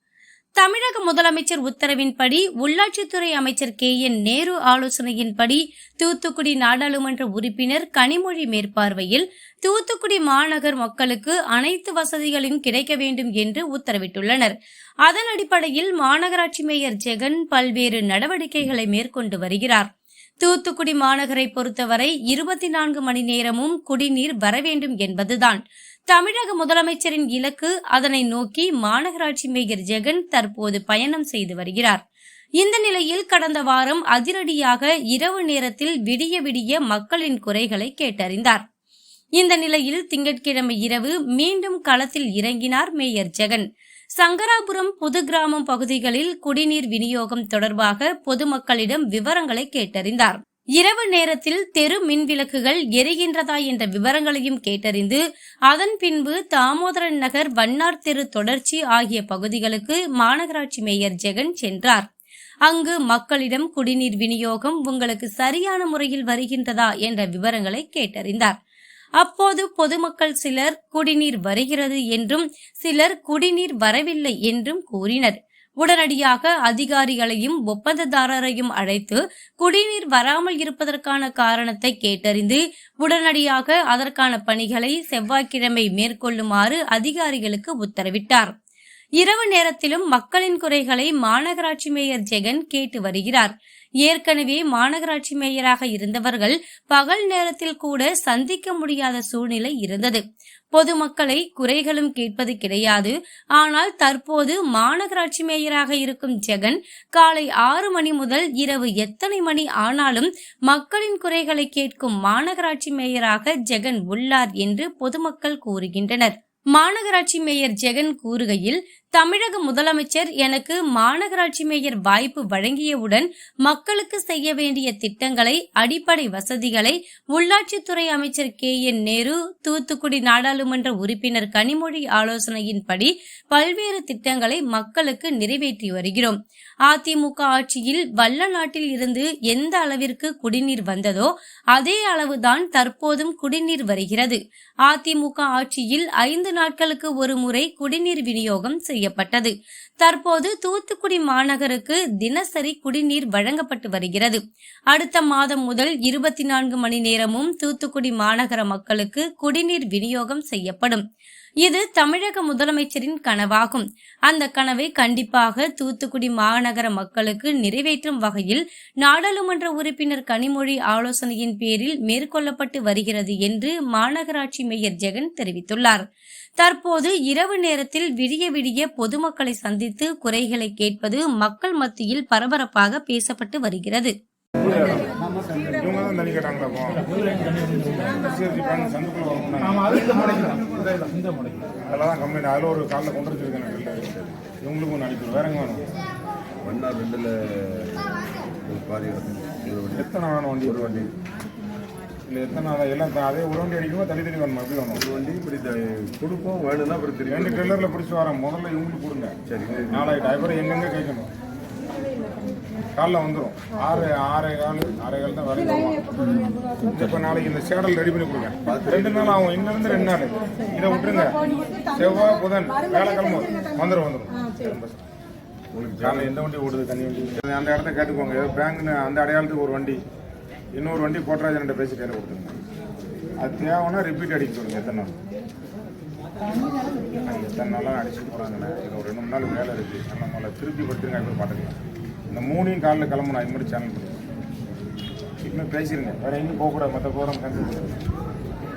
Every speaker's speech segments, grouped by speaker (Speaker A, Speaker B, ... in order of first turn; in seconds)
Speaker A: 0.6-14.5, 15.1-19.9, 20.4-32.0, 32.6-38.6, 39.4-43.6, 44.2-62.1, 62.6-68.6, 69.2-88.5, 89.2-161.0, 161.6-176.1, 176.6-184.1
Speaker B: 184.6-187.2, 188.1-191.1, 191.8-195.9, 199.9-201.1, 202.3-205.0, 207.3-209.4, 209.9-211.3, 212.9-216.2, 216.8-225.0, 226.0-230.0, 230.7-232.6, 233.4-235.2, 237.2-241.8, 242.3-244.2, 245.4-248.0
Speaker C: 196.6-200.1, 200.6-201.1, 205.0-207.8, 209.5-210.1, 218.7-219.3, 225.7-226.3